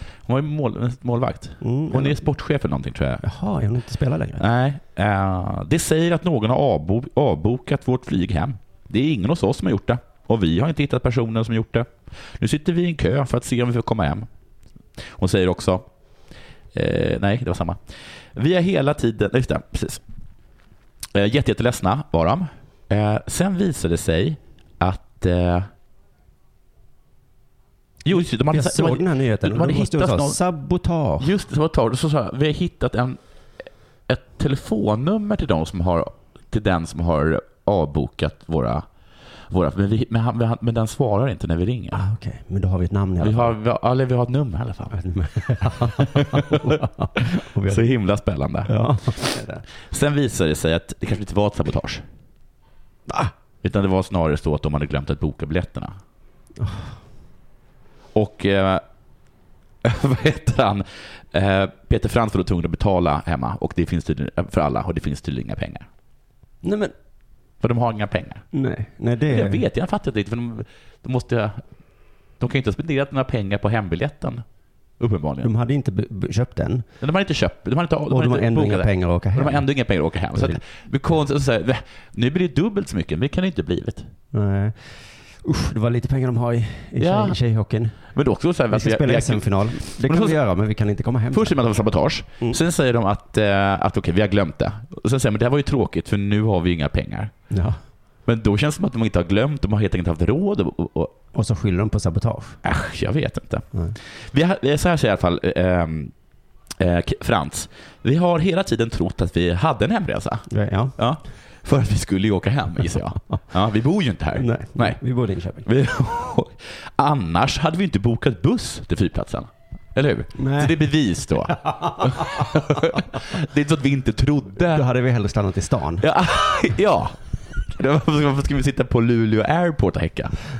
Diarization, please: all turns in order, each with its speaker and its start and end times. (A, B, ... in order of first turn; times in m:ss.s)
0:00.2-0:03.2 A
0:01.6-0:02.2 B
0:03.2-0:04.4 B
0:04.4-0:14.3 A
0:15.0-0:15.9 A
0:16.7-0:20.0 A
0:21.1-0:25.7 A
0:28.0-0:30.4 A
0:28.5-0:31.3 B
0:31.2-0:33.2 A
0:34.1-0:38.8 A
0:39.5-0:42.0 A
0:41.9-0:43.5 B
0:43.2-0:45.0 A
0:44.9-0:47.9 B
0:45.6-0:46.8 A
0:47.6-0:48.7 A
0:48.6-0:49.6 B
0:49.9-0:52.0 A
0:53.6-0:56.0 A
0:56.6-0:56.9 B
0:58.1-0:58.8 A
0:59.8-1:05.9 A
1:06.6-1:06.9 B
1:07.6-1:08.4 A
1:08.5-1:09.6 B
1:09.3-1:11.6 A
1:12.4-1:14.4 A
1:15.0-1:15.5 A
1:15.4-1:16.8 B
1:17.0-1:24.1 A
1:18.1-1:19.6 B
1:20.3-1:20.6 B
1:24.3-1:28.0 B
1:27.0-1:27.4 A
1:28.0-1:30.4 A
1:28.7-1:31.5 B
1:31.3-1:37.3 A
1:37.5-1:37.8 B
1:38.2-1:41.2 A
1:41.3-1:42.6 B
1:42.6-1:46.1 A
1:46.8-1:50.4 A
1:50.5-1:51.0 B
1:51.0-1:55.0 A
1:54.4-1:55.6 B
1:55.6-2:04.8 A
2:00.4-2:00.8 B
2:01.5-2:02.8 B
2:04.7-2:06.1 B
2:06.0-2:10.4 A